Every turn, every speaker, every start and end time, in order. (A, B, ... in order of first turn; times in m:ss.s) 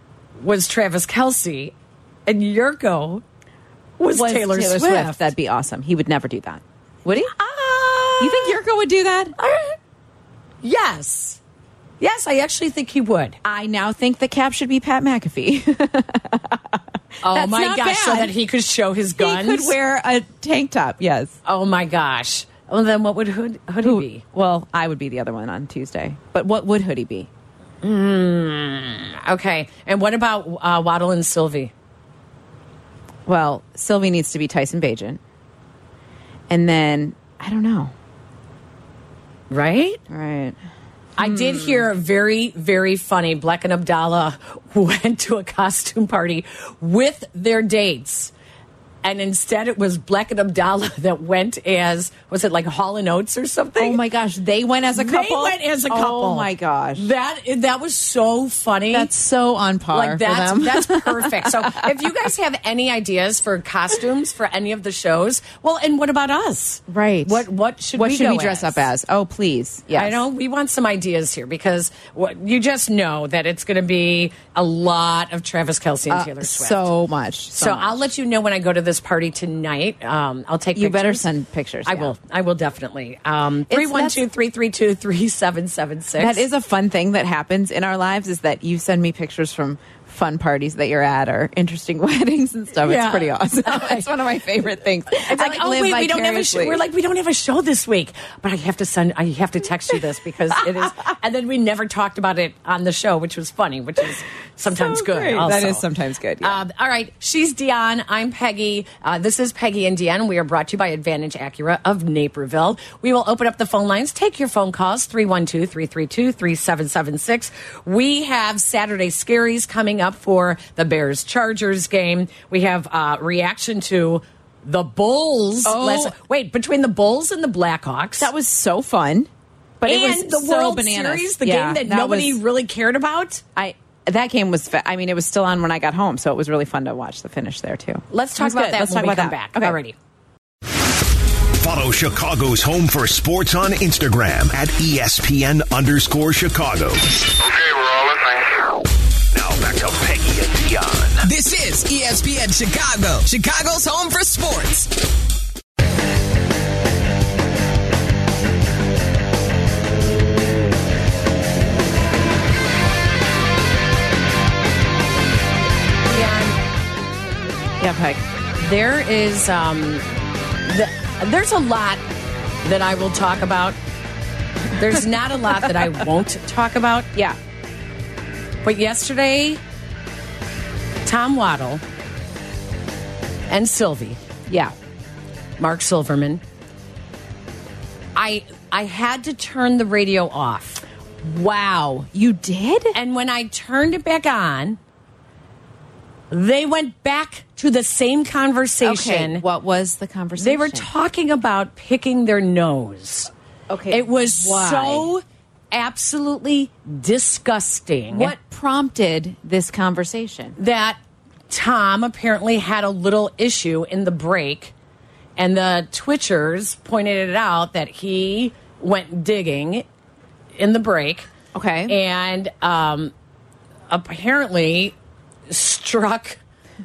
0:00.4-0:01.7 A
0:02.3-0:03.2 A
0:04.0-0:05.3 A
0:04.1-0:07.3 B
0:07.2-0:08.6 A
0:08.2-0:09.4 B
0:09.4-0:09.8 A
0:10.6-0:11.4 A
0:12.0-0:13.4 A
0:13.4-0:18.3 B
0:17.2-0:19.8 A
0:19.2-0:21.4 B
0:21.5-0:24.2 A
0:23.8-0:27.3 B
0:27.8-0:31.7 A
0:33.3-0:35.2 B
0:36.5-0:37.9 B
0:39.5-0:40.0 A
0:40.1-0:40.6 B
0:41.2-0:48.3 A
0:41.2-0:41.9 B
0:49.0-0:54.0 A
0:53.8-0:57.1 B
0:54.9-0:59.1 A
0:58.9-1:02.1 B
0:59.9-1:08.9 A
1:06.9-1:10.2 B
1:09.9-1:16.9 A
1:16.1-1:18.0 B
1:17.6-1:21.3 A
1:20.8-1:22.1 B
1:21.9-1:26.4 A
1:23.7-1:24.2 B
1:26.2-1:36.8 B
1:32.8-1:34.1 A
1:35.2-1:45.9 A
1:40.6-1:40.9 B
1:44.7-1:46.6 B
1:46.4-2:08.3 A
2:05.6-2:06.2 B
2:08.2-2:12.4 B
2:09.8-2:13.4 A
2:13.6-2:19.8 B
2:18.1-2:20.0 A
2:21.5-2:27.3 C
2:27.8-2:28.1 D
2:29.3-2:31.3 C
2:31.2-2:34.9 D
2:46.1-2:46.6 A
2:47.8-2:48.2 B
2:48.6-2:50.0 A
2:50.6-2:52.0 A
2:52.6-2:53.8 A
2:54.8-2:57.1 A
2:58.6-2:59.6 A
3:01.0-3:01.8 A
3:03.5-3:04.2 A
3:04.5-3:04.8 B
3:05.6-3:06.4 A
3:08.2-3:12.1 A
3:12.1-3:13.0 B
3:12.9-3:14.8 A
3:16.3-3:19.4 A
3:18.8-3:20.9 B
3:20.4-3:23.3 A
3:23.7-3:25.1 B
3:23.9-3:28.4 A
3:28.1-3:30.6 B
3:30.6-3:31.0 A
3:31.5-3:34.7 A
3:35.4-3:39.9 A
3:40.6-3:41.3 A
3:41.5-3:42.0 B
3:41.9-3:43.1 A
3:43.9-3:45.0 A
3:45.5-3:46.4 A